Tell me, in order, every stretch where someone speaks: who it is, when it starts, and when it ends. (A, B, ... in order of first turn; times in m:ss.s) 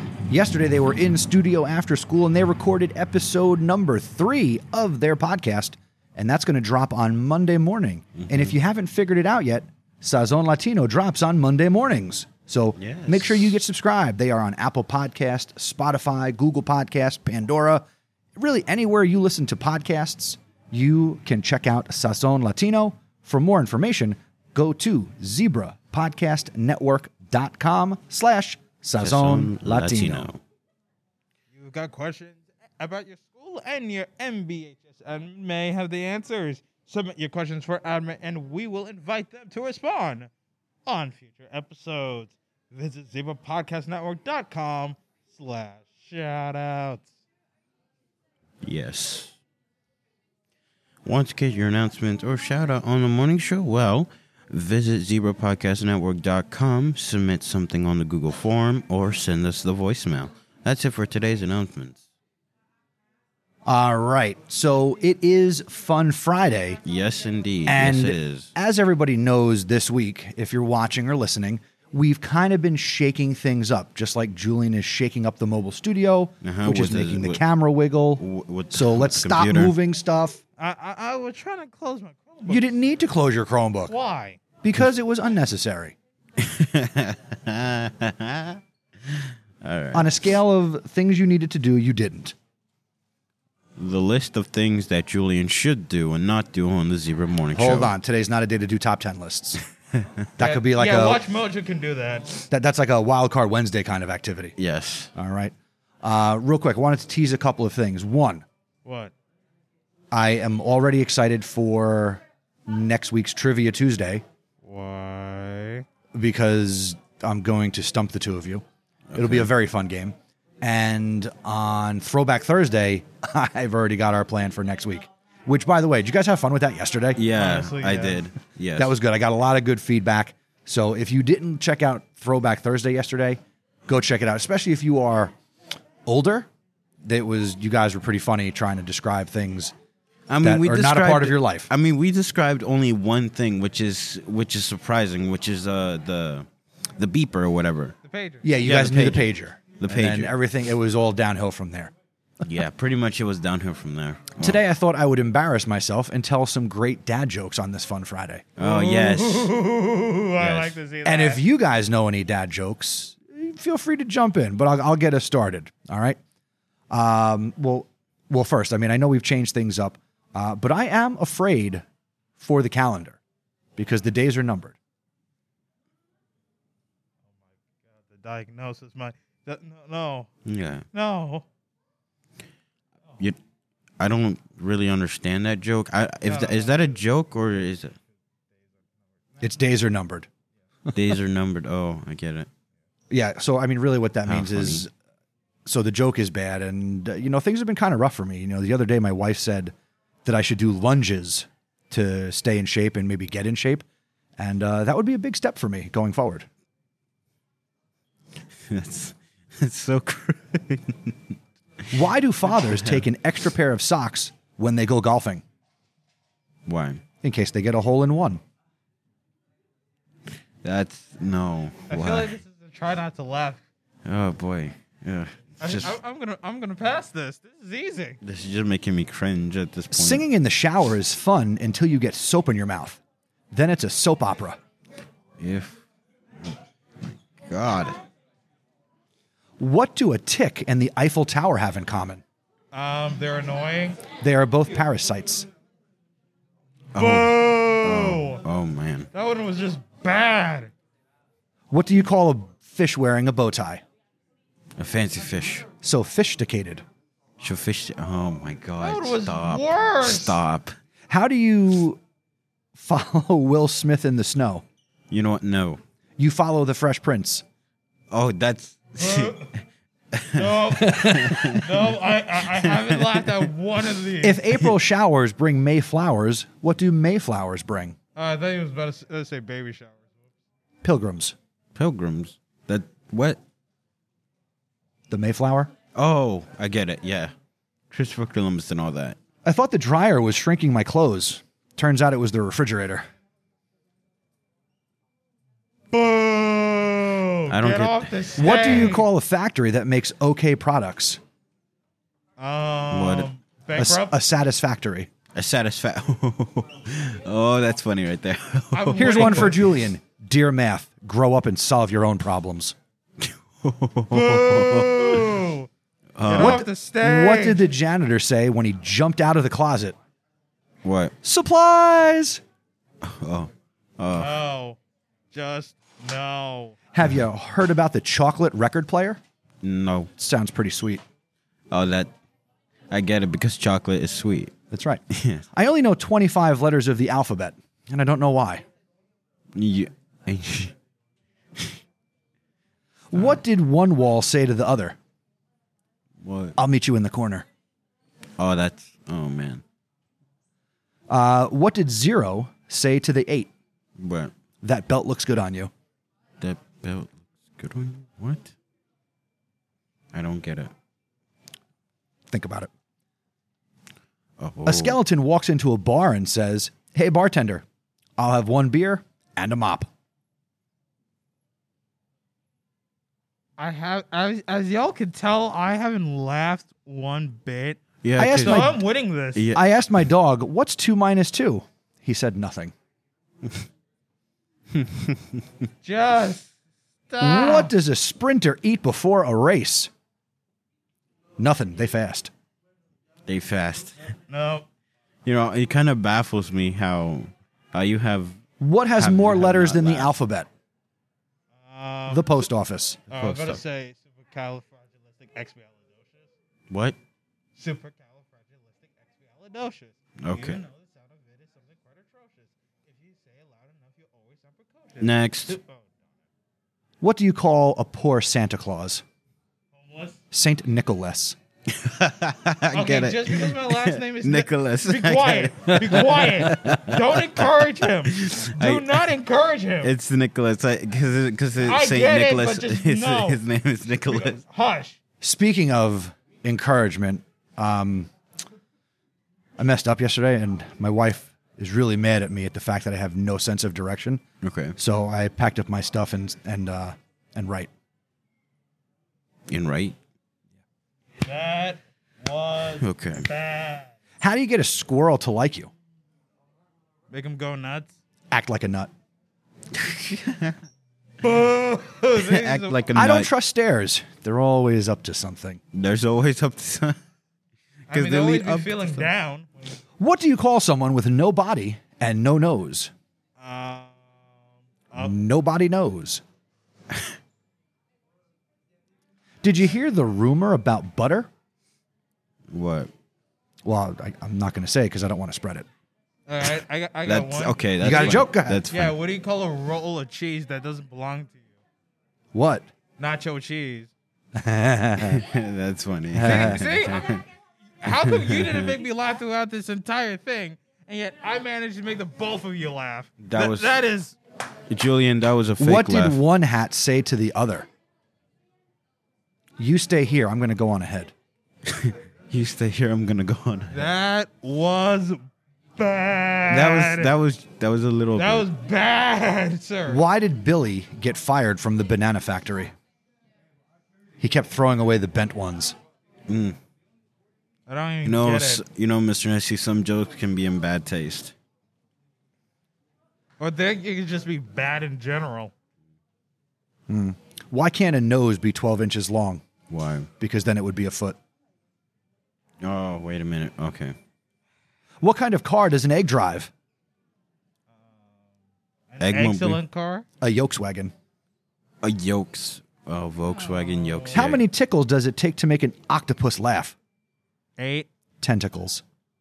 0:00.3-0:17.8 A
0:08.2-0:08.5 B
0:12.8-0:13.5 B
0:18.4-0:30.3 A
0:29.0-0:30.4 B
0:31.5-0:40.3 C
0:40.8-0:47.1 C
0:48.6-0:49.3 B
0:51.0-1:02.0 B
1:03.6-1:06.8 A
1:06.8-1:08.5 B
1:07.6-1:20.4 A
1:16.4-1:17.4 B
1:18.2-1:19.7 B
1:20.6-1:22.7 C
1:22.5-1:23.9 A
1:23.9-1:24.4 C
1:24.6-1:25.9 A
1:26.4-1:30.1 B
1:29.9-1:32.3 A
1:33.8-1:37.9 B
1:37.5-1:39.6 A
1:40.4-1:41.2 A
1:40.4-1:42.4 C
1:42.5-1:44.5 A
1:44.6-1:45.1 B
1:45.1-1:48.4 A
1:48.8-1:49.1 C
1:50.1-1:54.2 A
1:54.6-1:55.8 C
1:56.1-1:58.6 A
1:59.1-1:59.5 B
1:59.2-2:07.2 A
2:07.2-2:08.9 B
2:07.3-2:08.3 C
2:08.7-2:15.3 A
2:16.0-2:16.5 A
2:17.0-2:19.7 A
2:20.3-2:26.4 B
2:20.4-2:21.7 A
2:27.0-2:28.0 B
2:28.0-2:28.6 C
2:28.4-2:31.9 A
2:28.6-2:30.3 B
2:32.4-2:34.6 B
2:34.4-2:38.5 A
2:38.6-2:39.5 B
2:38.6-2:41.4 C
2:40.4-2:40.8 B
2:41.0-2:46.2 A
2:46.9-2:51.8 A
2:52.4-2:53.2 A
2:53.8-2:54.8 A
2:57.9-3:00.3 C
3:00.4-3:00.8 B
3:00.9-3:01.4 C
3:04.0-3:08.0 B
3:06.2-3:06.9 C
3:09.4-3:10.3 A
3:10.9-3:12.5 B
3:13.1-3:14.9 A
3:14.2-3:14.8 B
3:15.6-3:19.7 A
3:20.2-3:23.8 A
3:24.4-3:26.5 A
3:28.7-3:31.2 B
3:31.9-3:35.4 A
3:32.6-3:33.0 B
3:36.6-3:37.0 B
3:37.2-3:38.4 A
3:40.6-3:42.3 B
3:41.9-3:43.6 C
3:44.0-3:46.0 B
3:45.6-3:48.2 C
3:48.2-3:50.2 B
3:49.9-3:53.0 A
3:53.5-3:54.6 A
3:55.4-3:55.8 B
3:56.4-3:58.0 B
3:59.6-4:02.2 A
4:02.7-4:04.0 C
4:04.2-4:05.5 A
4:06.9-4:09.1 B
4:07.0-4:08.4 C
4:09.1-4:10.7 C
4:11.7-4:13.8 A
4:14.8-4:15.7 B
4:15.8-4:16.8 A
4:17.4-4:20.7 B
4:18.8-4:20.4 C
4:21.1-4:22.0 A
4:22.7-4:24.6 A
4:25.1-4:25.8 B
4:26.2-4:27.4 A
4:28.1-4:29.5 B
4:29.0-4:29.5 C
4:30.1-4:31.7 B
4:30.3-4:34.4 C
4:30.9-4:31.2 A
4:32.6-4:33.3 B
4:34.2-4:38.0 A
4:38.2-4:40.1 C
4:40.8-4:41.3 A
4:41.7-4:43.4 B
4:45.1-4:45.7 A
4:45.9-4:47.3 B
4:47.9-4:49.2 B
4:49.4-4:53.0 A
4:55.9-4:59.0 C
4:57.5-4:58.2 B
4:58.4-5:01.2 A
5:02.4-5:04.2 C
5:02.9-5:03.3 B
5:03.7-5:05.1 A
5:05.3-5:09.6 B
5:08.7-5:09.6 C
5:09.0-5:12.7 A
5:13.2-5:15.4 B
5:14.1-5:15.7 C
5:16.2-5:16.6 B
5:16.2-5:17.6 C
5:16.3-5:20.0 A
5:20.8-5:21.1 B
5:21.2-5:22.4 A
5:23.0-5:24.4 B
5:24.1-5:24.8 C
5:25.3-5:26.8 C
5:26.9-5:29.2 A
5:29.6-5:30.1 B
5:30.2-5:31.0 A
5:31.7-5:32.1 B
5:32.9-5:34.5 B
5:34.7-5:35.0 A
5:35.1-5:35.4 B
5:35.5-5:38.6 A
5:39.5-5:40.7 B
5:43.1-5:45.0 A
5:46.2-5:46.6 B
5:46.6-5:47.4 A
5:48.4-5:49.6 B
5:51.1-5:53.5 A
5:54.0-5:54.3 B
5:54.6-5:55.7 A
5:56.4-5:58.5 B
6:00.1-6:00.7 B
6:02.3-6:02.7 A
6:04.4-6:05.0 B
6:04.6-6:07.6 A
6:08.2-6:09.9 A
6:13.6-6:17.8 C
6:18.0-6:18.7 B
6:18.2-6:18.8 A
6:18.4-6:19.5 C
6:19.3-6:19.6 B
6:19.5-6:22.7 A
6:24.7-6:25.4 B
6:25.8-6:26.5 C
6:27.1-6:27.7 C
6:27.2-6:29.9 A
6:31.4-6:32.3 A
6:33.2-6:34.0 B
6:34.3-6:34.6 C
6:35.2-6:38.4 B
6:38.6-6:40.5 A
6:39.0-6:40.1 B
6:41.5-6:42.4 C
6:42.1-6:43.0 A
6:43.1-6:46.3 C
6:43.1-6:43.6 B
6:46.7-6:47.0 B
6:47.6-6:55.9 C
6:50.2-6:50.6 B
6:55.0-6:55.6 B
6:57.0-6:59.0 A
6:59.7-7:00.2 C
7:00.3-7:01.4 A
7:01.7-7:09.0 B
7:02.7-7:09.9 C
7:09.8-7:14.4 B
7:11.6-7:13.4 C
7:14.1-7:15.0 C
7:15.2-7:18.1 A
7:19.6-7:24.2 A
7:24.4-7:24.8 B
7:24.8-7:27.7 A
7:29.5-7:30.0 B
7:31.2-7:33.9 C
7:32.8-7:33.3 B
7:34.2-7:35.7 A
7:37.1-7:37.9 C
7:38.3-7:38.9 A
7:39.7-7:40.6 B
7:41.2-7:42.8 C
7:42.2-7:43.3 B
7:42.9-7:45.6 A
7:45.7-7:47.0 B
7:47.9-7:49.8 C
7:47.9-7:49.1 B
7:50.0-7:52.9 A
7:53.4-7:54.3 C
7:55.0-7:56.2 A
7:59.4-8:01.3 A
8:02.5-8:02.9 B
8:03.6-8:05.7 A
8:06.3-8:11.5 C
8:07.0-8:09.0 B
8:07.8-8:08.6 A
8:12.3-8:12.7 A
8:13.0-8:13.9 C
8:14.3-8:15.2 A
8:15.0-8:17.2 B
8:16.1-8:16.6 A
8:16.2-8:17.2 C
8:17.8-8:24.2 C
8:18.0-8:18.7 B
8:23.2-8:23.8 B
8:24.7-8:26.2 B
8:25.6-8:27.7 A
8:29.6-8:31.1 A
8:31.6-8:33.9 B
8:33.7-8:35.2 C
8:35.8-8:37.1 C
8:36.5-8:38.5 B
8:38.2-8:40.0 C
8:39.9-8:42.7 A
8:44.2-8:45.7 A
8:46.3-8:46.6 B
8:47.7-8:48.6 C
8:48.0-8:51.3 B
8:53.4-8:55.5 C
8:56.9-8:59.4 A
8:59.7-9:00.1 B
9:00.2-9:01.2 A
9:02.6-9:04.0 B
9:05.0-9:06.5 A
9:08.9-9:10.0 C
9:09.0-9:09.6 B
9:10.2-9:10.9 A
9:11.8-9:14.4 B
9:13.4-9:14.2 C
9:14.1-9:16.7 A
9:17.6-9:17.9 C
9:18.2-9:18.8 A